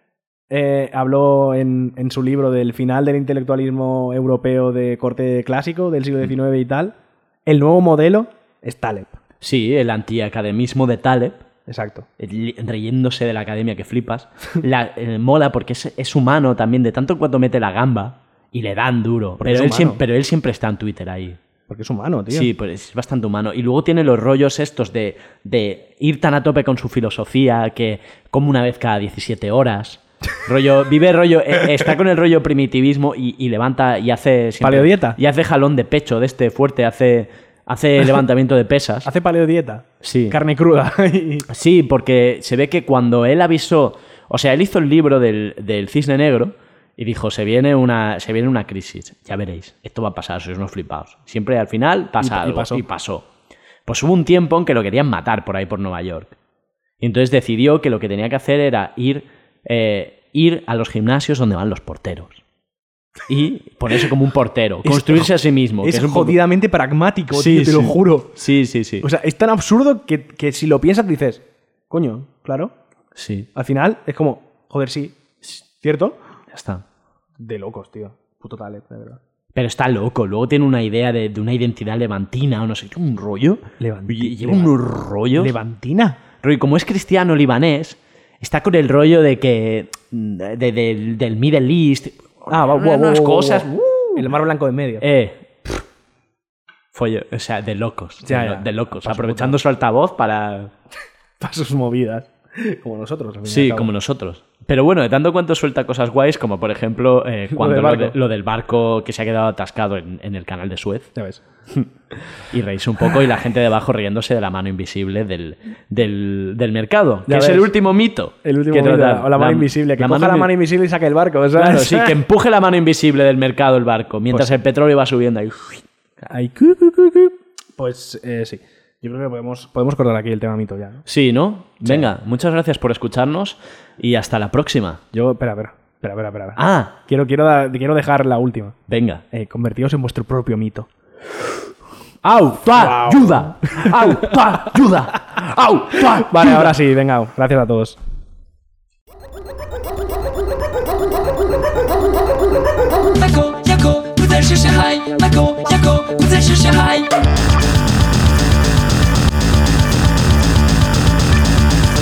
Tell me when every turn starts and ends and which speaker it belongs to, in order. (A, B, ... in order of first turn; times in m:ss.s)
0:00.5-0:06.9 A
0:07.4-0:09.2 A
0:09.4-0:11.4 B
0:11.7-0:12.1 A
0:12.2-0:21.4 B
0:19.4-0:20.0 A
0:21.7-0:22.5 A
0:22.3-0:39.1 B
0:34.6-0:35.2 A
0:39.0-0:41.5 A
0:40.0-0:40.4 B
0:41.5-0:53.3 B
0:52.2-0:52.8 A
0:53.8-0:56.4 B
0:57.0-1:02.4 B
1:03.3-1:06.4 B
1:04.8-1:08.4 A
1:07.3-1:09.0 B
1:09.0-1:12.7 A
1:13.1-1:13.5 B
1:13.5-1:15.2 A
1:15.8-1:16.2 A
1:16.5-1:16.8 B
1:17.4-1:19.2 A
1:19.5-1:25.5 B
1:23.8-1:24.8 A
1:25.4-1:26.2 A
1:26.4-1:34.3 B
1:32.5-1:35.0 A
1:35.0-1:35.8 B
1:36.9-1:40.7 B
1:38.2-1:39.6 A
1:41.4-1:43.9 A
1:43.4-1:51.1 B
1:47.5-1:48.2 A
1:51.2-1:51.4 A
1:52.4-2:00.5 B
1:57.2-1:57.7 A
1:58.4-2:02.2 A
2:01.5-2:05.8 B
2:06.2-2:11.0 A
2:11.0-2:15.0 B
2:11.8-2:12.1 A
2:15.1-2:18.8 A
2:16.6-2:17.0 B
2:18.9-2:19.2 B
2:19.3-2:20.9 A
2:22.2-2:26.8 B
2:22.7-2:24.7 A
2:26.1-2:28.0 A
2:33.1-2:37.1 C